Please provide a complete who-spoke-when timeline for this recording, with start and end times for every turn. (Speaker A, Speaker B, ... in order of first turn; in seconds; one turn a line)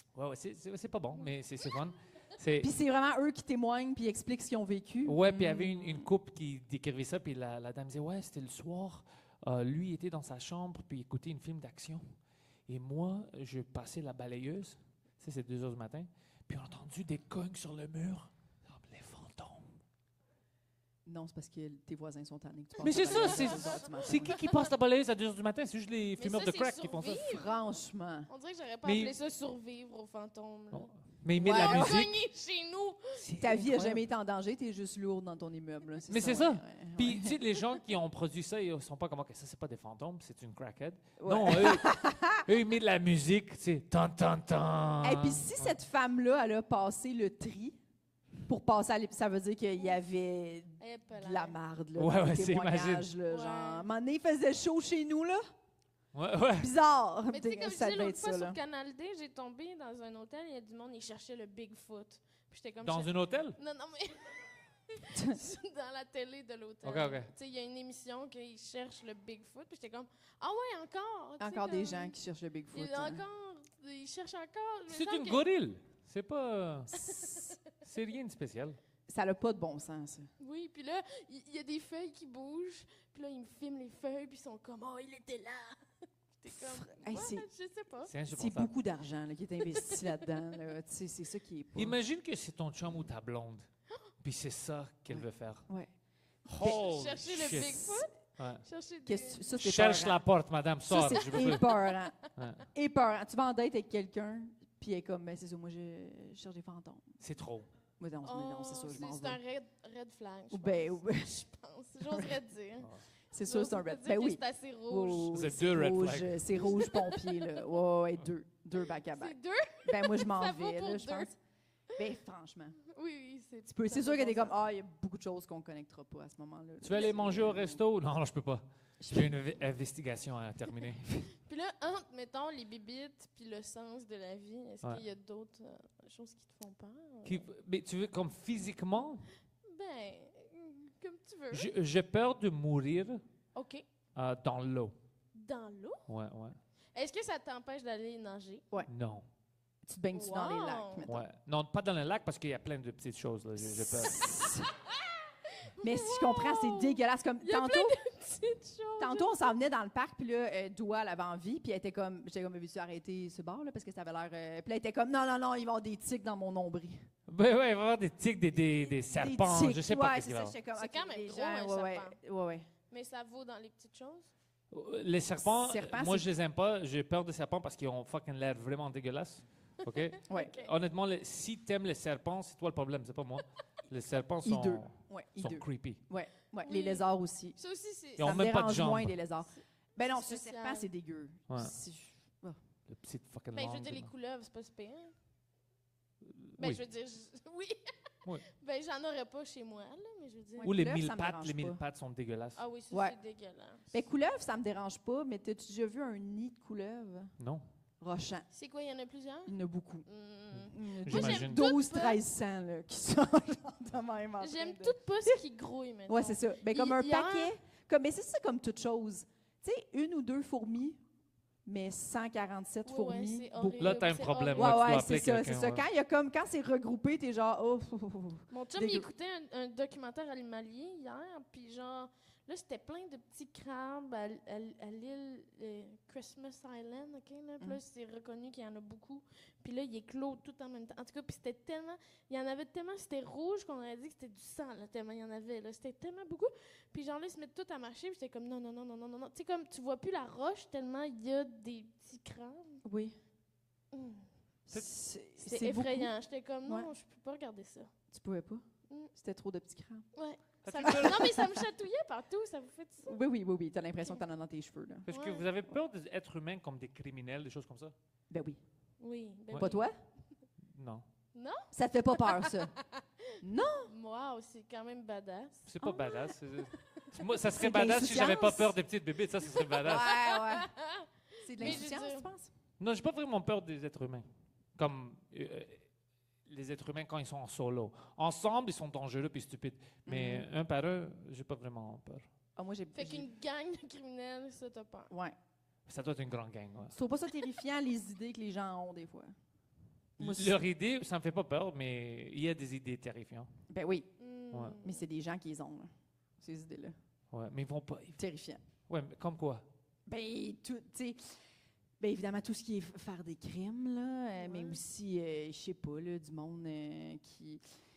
Speaker A: 0.1-2.7
Speaker B: 2.6-6.1
Speaker A: 5.0-12.0
Speaker A: 12.7-19.7
Speaker B: 21.0-24.4
Speaker A: 22.8-27.3
Speaker C: 26.2-27.5
Speaker B: 27.3-28.3
Speaker C: 28.3-33.2
Speaker A: 28.8-29.1
Speaker A: 30.7-32.2
Speaker B: 31.4-32.0
Speaker A: 33.1-34.0
Speaker B: 33.4-37.4
Speaker A: 36.1-45.7
Speaker B: 41.2-42.4
Speaker B: 45.0-47.8
Speaker B: 48.5-55.4
Speaker C: 50.8-51.5
Speaker A: 52.0-53.1
Speaker C: 53.3-53.9
Speaker A: 56.1-56.7
Speaker B: 56.6-58.6
Speaker C: 57.3-64.4
Speaker A: 62.8-63.6
Speaker C: 64.9-72.1
Speaker A: 66.8-67.3
Speaker B: 71.4-73.2
Speaker C: 72.7-75.5
Speaker A: 74.9-77.0
Speaker C: 77.0-77.5
Speaker A: 77.7-78.8
Speaker B: 79.1-80.3
Speaker C: 80.4-85.8
Speaker C: 86.4-88.1
Speaker B: 86.5-87.4
Speaker A: 88.1-88.7
Speaker B: 88.3-92.0
Speaker A: 91.8-93.7
Speaker A: 94.2-95.7
Speaker B: 95.1-95.9
Speaker A: 96.5-97.8
Speaker C: 96.6-99.5
Speaker B: 97.5-98.0
Speaker A: 98.4-98.6
Speaker B: 99.0-100.2
Speaker A: 99.6-101.7
Speaker B: 100.9-102.2
Speaker A: 102.3-102.7
Speaker B: 102.7-107.1
Speaker A: 107.2-107.7
Speaker B: 108.0-109.4
Speaker C: 108.2-112.9
Speaker B: 110.5-111.4
Speaker B: 112.0-112.4
Speaker B: 113.3-121.4
Speaker C: 113.4-115.3
Speaker A: 115.3-116.6
Speaker C: 116.7-117.5
Speaker C: 119.1-121.3
Speaker B: 122.0-122.8
Speaker C: 122.9-124.6
Speaker B: 123.7-127.8
Speaker A: 126.8-131.3
Speaker B: 129.0-129.3
Speaker C: 131.4-137.5
Speaker A: 137.2-139.3
Speaker C: 139.7-141.7
Speaker A: 141.5-143.2
Speaker C: 143.5-143.8
Speaker A: 144.2-144.9
Speaker C: 145.3-146.0
Speaker A: 146.1-146.6
Speaker C: 146.9-148.7
Speaker A: 148.9-149.2
Speaker B: 149.8-151.2
Speaker C: 150.1-151.1
Speaker A: 151.1-154.2
Speaker B: 153.6-154.7
Speaker C: 155.8-159.5
Speaker B: 155.8-158.0
Speaker B: 159.0-167.0
Speaker A: 167.3-170.6
Speaker B: 169.2-172.7
Speaker C: 170.8-172.2
Speaker C: 172.9-174.3
Speaker A: 174.7-186.0
Speaker B: 175.4-176.3
Speaker C: 180.0-180.7
Speaker B: 184.4-187.6
Speaker C: 186.6-188.3
Speaker A: 188.2-189.1
Speaker B: 188.2-192.6
Speaker C: 189.6-190.9
Speaker A: 192.9-194.1
Speaker C: 193.5-195.1
Speaker A: 196.3-196.8
Speaker C: 196.6-197.8
Speaker C: 198.5-200.7
Speaker B: 200.6-201.8
Speaker A: 200.6-202.6
Speaker C: 202.6-203.9
Speaker B: 202.9-203.2
Speaker B: 203.9-207.3
Speaker A: 207.4-207.6
Speaker B: 208.0-208.5
Speaker C: 208.5-209.5
Speaker B: 209.4-215.4
Speaker C: 210.1-212.2
Speaker A: 211.1-211.7
Speaker C: 214.4-217.6
Speaker B: 216.1-221.0
Speaker B: 221.6-229.1
Speaker C: 222.8-224.9
Speaker A: 223.8-225.8
Speaker C: 228.5-252.8
Speaker B: 252.8-253.2
Speaker C: 253.9-254.3
Speaker B: 254.7-256.1
Speaker C: 255.4-257.9
Speaker B: 258.1-260.1
Speaker C: 260.1-263.2
Speaker A: 260.6-261.4
Speaker B: 260.8-261.6
Speaker B: 263.0-265.1
Speaker A: 265.1-267.9
Speaker C: 265.1-265.4
Speaker B: 268.3-268.6
Speaker C: 269.0-269.9
Speaker B: 269.5-269.9
Speaker A: 270.7-271.0
Speaker C: 271.3-273.0
Speaker B: 271.7-272.7
Speaker B: 273.4-273.9
Speaker C: 273.9-275.6
Speaker A: 275.6-280.1
Speaker B: 275.8-276.1
Speaker C: 276.9-277.2
Speaker B: 277.5-278.8
Speaker C: 279.6-282.3
Speaker B: 279.8-280.7
Speaker B: 281.4-282.5
Speaker A: 282.8-284.2
Speaker A: 284.8-285.8
Speaker A: 286.5-292.3
Speaker B: 290.1-290.5
Speaker B: 292.6-293.3
Speaker C: 292.9-295.1
Speaker A: 295.9-296.9
Speaker B: 296.9-299.3
Speaker A: 300.2-303.5
Speaker B: 300.2-300.6
Speaker B: 303.7-304.1
Speaker C: 304.2-305.0
Speaker B: 304.8-306.9
Speaker A: 307.3-308.2
Speaker B: 308.2-308.6
Speaker A: 308.9-309.6
Speaker B: 310.1-311.3
Speaker B: 312.0-317.6
Speaker C: 314.4-314.8